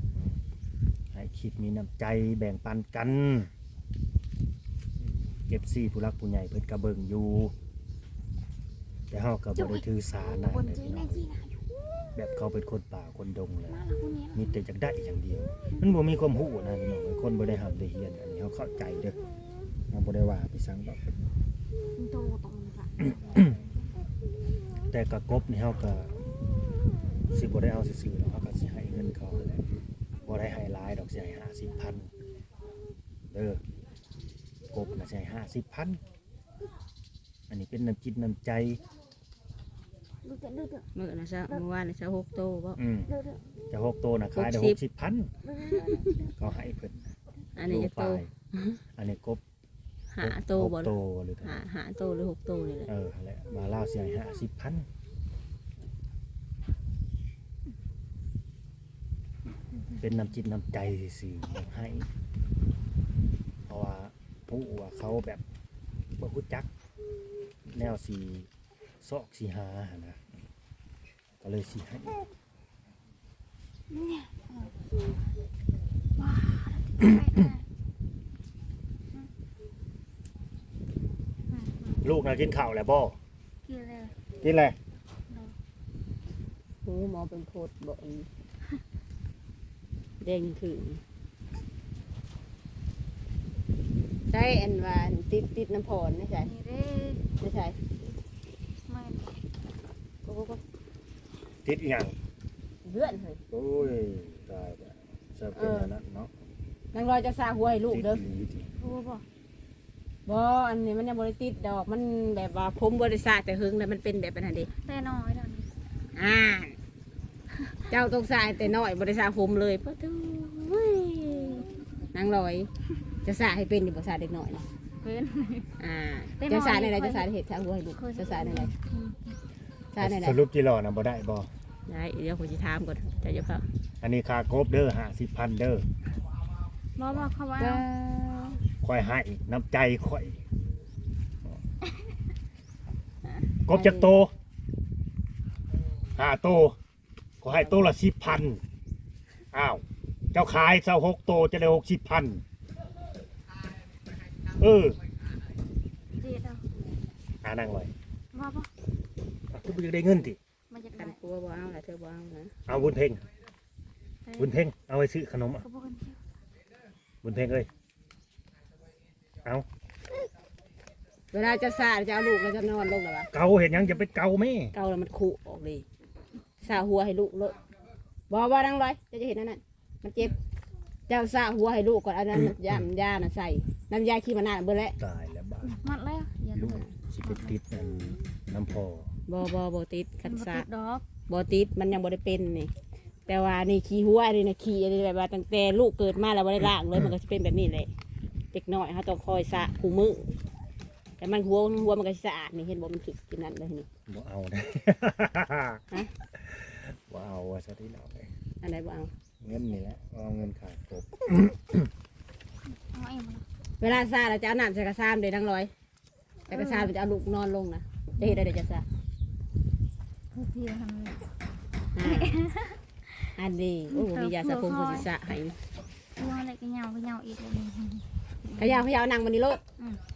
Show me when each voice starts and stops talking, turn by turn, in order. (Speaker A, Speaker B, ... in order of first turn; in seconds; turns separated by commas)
Speaker A: 0.1-0.4, Speaker A: 1.1-3.5, Speaker A: 5.5-7.5, Speaker A: 9.1-11.2, Speaker B: 9.6-11.6, Speaker A: 12.1-13.8, Speaker B: 13.7-14.5, Speaker A: 14.3-19.2, Speaker A: 19.9-21.0, Speaker B: 21.9-23.6, Speaker A: 24.9-26.1, Speaker A: 27.3-29.6, Speaker A: 30.2-32.1, Speaker A: 33.3-33.6, Speaker A: 34.7-36.0, Speaker A: 37.5-38.8, Speaker B: 40.2-40.9, Speaker C: 40.9-42.8, Speaker A: 42.8-43.1, Speaker A: 43.7-45.3, Speaker C: 44.3-44.8, Speaker B: 45.6-46.2, Speaker C: 45.7-46.1, Speaker A: 46.2-48.3, Speaker C: 47.5-48.8, Speaker A: 49.0-49.4, Speaker C: 50.1-52.9, Speaker A: 50.2-51.6, Speaker A: 52.9-54.9, Speaker A: 60.0-62.1, Speaker A: 63.7-65.4, Speaker A: 66.2-66.7, Speaker A: 67.7-68.5, Speaker A: 69.0-70.2, Speaker A: 71.4-72.2, Speaker B: 73.9-74.7, Speaker B: 76.2-77.6, Speaker B: 81.5-82.0, Speaker A: 82.0-83.2, Speaker B: 83.7-84.1, Speaker A: 84.4-84.8, Speaker B: 85.3-85.5, Speaker C: 86.8-88.3, Speaker C: 90.2-91.0, Speaker C: 94.3-96.5, Speaker B: 96.4-97.2, Speaker C: 97.4-97.8, Speaker B: 98.9-99.4, Speaker C: 100.2-100.6, Speaker A: 101.6-102.1, Speaker C: 102.8-103.4, Speaker A: 103.5-106.3, Speaker C: 105.5-105.9, Speaker C: 106.9-108.2, Speaker A: 107.9-108.7, Speaker B: 108.8-109.2, Speaker C: 110.2-114.7, Speaker B: 114.8-115.7, Speaker C: 116.2-116.7, Speaker B: 117.6-117.9, Speaker C: 117.9-122.7, Speaker C: 123.2-124.7, Speaker B: 125.0-125.7, Speaker C: 125.8-128.7, Speaker B: 126.4-127.3, Speaker B: 128.0-129.4, Speaker C: 129.9-130.4, Speaker A: 130.0-131.5, Speaker C: 131.9-133.6, Speaker A: 134.0-135.8, Speaker B: 137.0-138.1, Speaker C: 137.6-138.6, Speaker A: 138.8-140.4, Speaker A: 143.7-144.3, Speaker C: 143.7-144.1, Speaker A: 146.2-146.8, Speaker A: 147.4-148.6, Speaker A: 149.5-149.8, Speaker A: 150.3-152.4, Speaker A: 154.6-155.0, Speaker B: 156.2-156.6, Speaker A: 157.4-157.9, Speaker B: 158.3-158.7, Speaker A: 159.5-160.4, Speaker B: 160.7-161.2, Speaker C: 160.9-162.5, Speaker A: 162.7-163.2, Speaker B: 164.2-164.6, Speaker A: 164.4-165.6, Speaker B: 165.6-166.2, Speaker A: 167.2-167.7, Speaker C: 171.3-173.3, Speaker A: 173.3-174.7, Speaker C: 174.7-175.8, Speaker C: 176.6-177.6, Speaker C: 178.3-180.3, Speaker C: 181.1-185.0, Speaker A: 185.0-185.8, Speaker B: 185.6-187.6, Speaker A: 186.5-189.1, Speaker C: 189.3-190.7, Speaker B: 190.2-191.1, Speaker C: 191.3-192.7, Speaker C: 193.3-197.9, Speaker C: 198.5-200.3, Speaker C: 201.2-203.9, Speaker A: 204.1-208.3, Speaker C: 208.6-209.1, Speaker A: 209.4-211.9, Speaker B: 212.9-213.4, Speaker C: 213.8-215.7, Speaker C: 216.5-218.8, Speaker B: 216.5-216.9, Speaker B: 218.2-218.4, Speaker B: 220.3-221.2, Speaker C: 221.9-222.4, Speaker B: 222.0-223.3, Speaker C: 223.3-225.6, Speaker B: 223.9-225.1, Speaker B: 226.2-228.8, Speaker C: 228.6-229.6